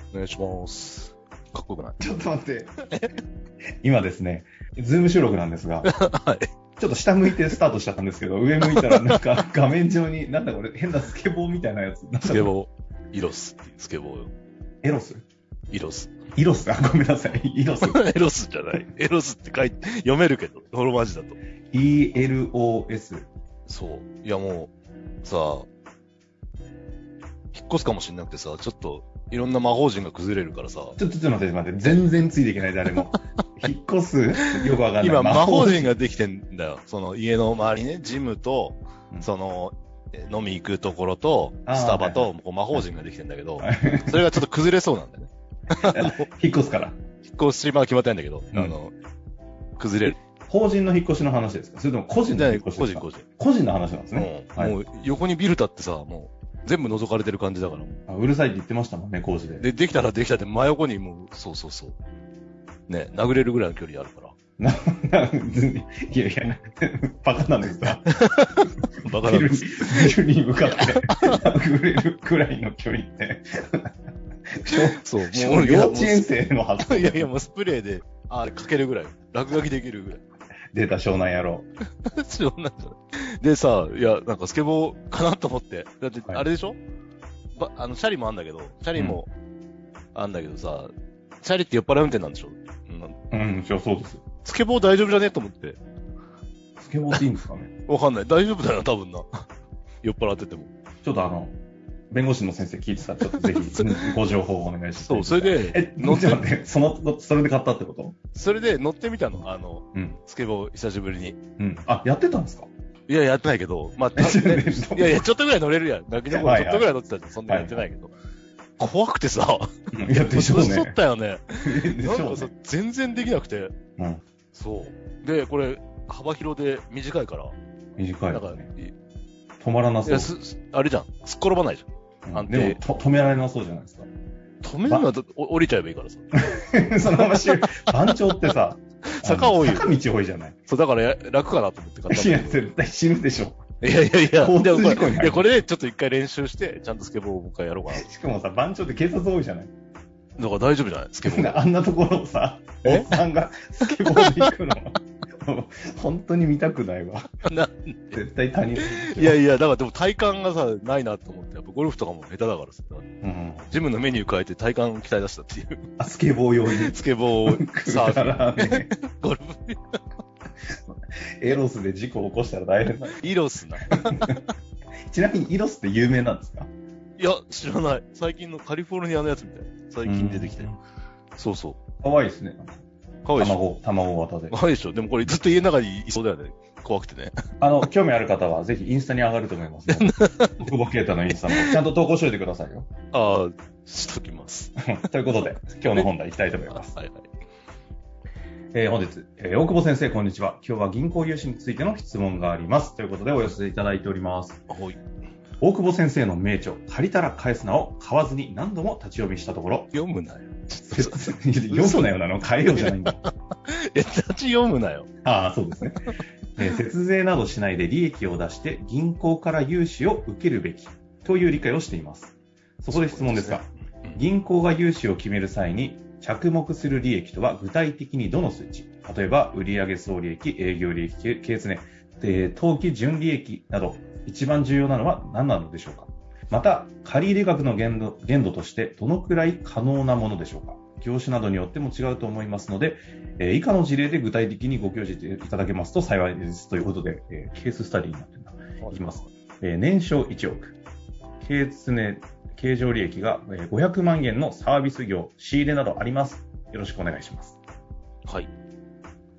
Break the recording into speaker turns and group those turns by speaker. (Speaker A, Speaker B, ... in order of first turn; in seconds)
Speaker A: 0.1-2.0, 5.8-6.5, 8.7-9.2, 12.2-14.3, 15.7-16.2, 17.8-21.4, 23.7-24.7, 25.2-25.7, 27.5-31.0, 35.0-46.3, 47.2-48.9, 49.8-50.1, 52.2-53.3, 54.1-58.0, 59.6-62.0, 62.9-64.3, 68.2-70.2, 70.8-71.4, 74.7-76.3, 76.8-80.2, 82.0-86.8, 87.6-89.3, 90.2-93.2, 94.4-95.8, 97.9-99.5, 100.0-100.7, 103.3-103.8, 105.0-106.4, 108.3-111.4, 113.1-118.1, 118.8-119.7, 120.2-123.8, 124.5-127.6, 128.3-128.9, 130.1-132.8, 134.6-136.3, 137.2-137.9, 139.1-139.9, 140.7-142.6, 143.8-148.1, 150.4-151.6, 152.8-153.1, 153.9-154.5, 157.4-158.2, 158.8-163.1, 163.7-165.8, 166.7-170.0, 173.1-174.4, 177.2-180.7, 181.4-181.8, 183.2-183.6, 184.5-187.4, 190.0-190.6, 191.5-191.8, 193.1-194.8, 196.7-197.3, 204.7-205.0, 209.9-212.1, 212.7-215.1, 222.9-224.2, 248.8-249.3, 258.3-258.5
Speaker B: 2.0-2.7, 3.8-5.9, 6.8-12.5, 14.8-15.2, 16.4-18.0, 21.7-23.3, 31.0-35.9, 41.7-42.8, 43.6-44.4, 45.8-47.0, 50.4-54.8, 58.1-59.6, 64.6-68.1, 69.1-73.9, 74.6-77.3, 80.7-81.7, 89.0-89.2, 93.3-94.2, 96.8-97.7, 101.0-101.5, 102.1-108.2, 111.6-112.7, 114.2-115.3, 116.3-116.9, 117.5-117.8, 119.9-121.0, 121.6-122.5, 128.0-128.7, 129.6-130.3, 132.3-134.1, 136.4-140.6, 142.1-143.6, 144.4-145.5, 147.9-149.7, 151.2-157.3, 158.1-159.4, 163.2-163.7, 166.0-168.9, 171.4-173.3, 174.0-174.4, 175.1-176.7, 180.1-180.8, 182.0-182.8, 183.4-184.6, 187.6-192.9, 194.9-196.9, 198.7-204.6, 205.6-209.9, 210.9-213.2, 215.2-250.8, 251.4-257.6